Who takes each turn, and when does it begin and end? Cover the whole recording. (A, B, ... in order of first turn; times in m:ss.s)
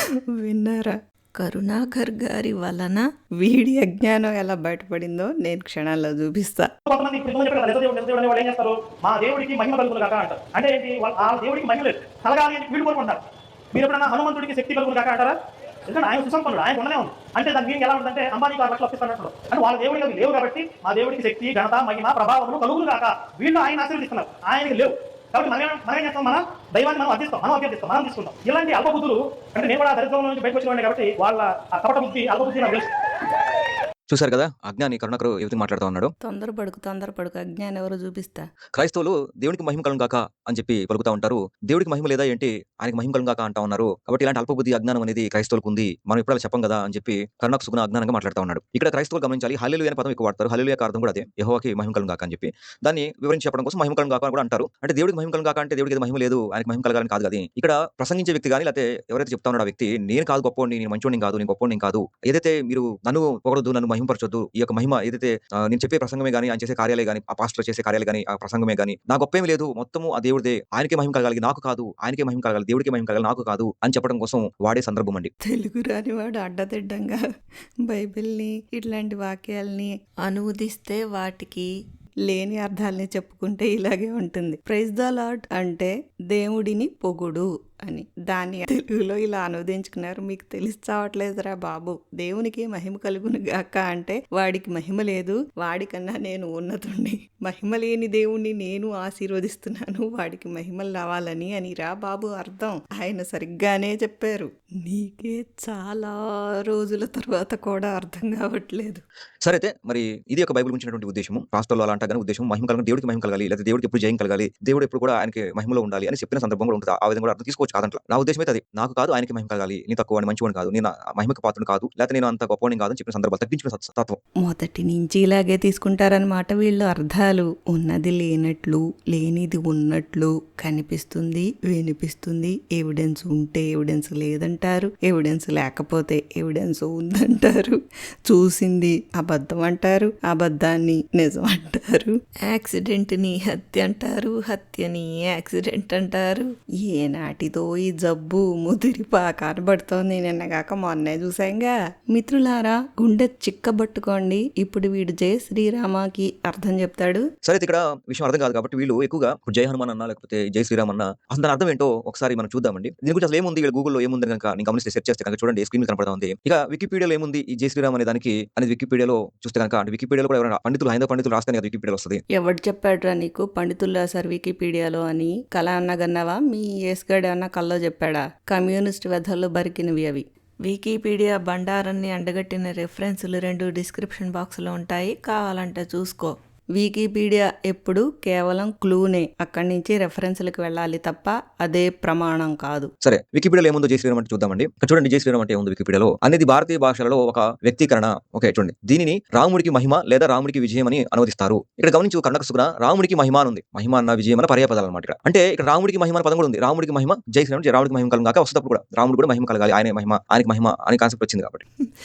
0:00.3-0:06.7 A
0:06.8-0:13.2 B
0:13.7-0:15.4 B
0:15.9-0:32.9 B
0:34.1-0:36.1 C
0:36.2-0:38.5 A
0:38.8-1:15.3 C
1:15.4-1:17.2 A
1:17.8-1:21.7 A
1:22.3-1:49.0 A
1:49.4-2:04.2 C
2:04.4-2:37.2 A
2:37.4-2:52.2 C
2:52.3-3:12.9 A
3:13.0-3:31.6 C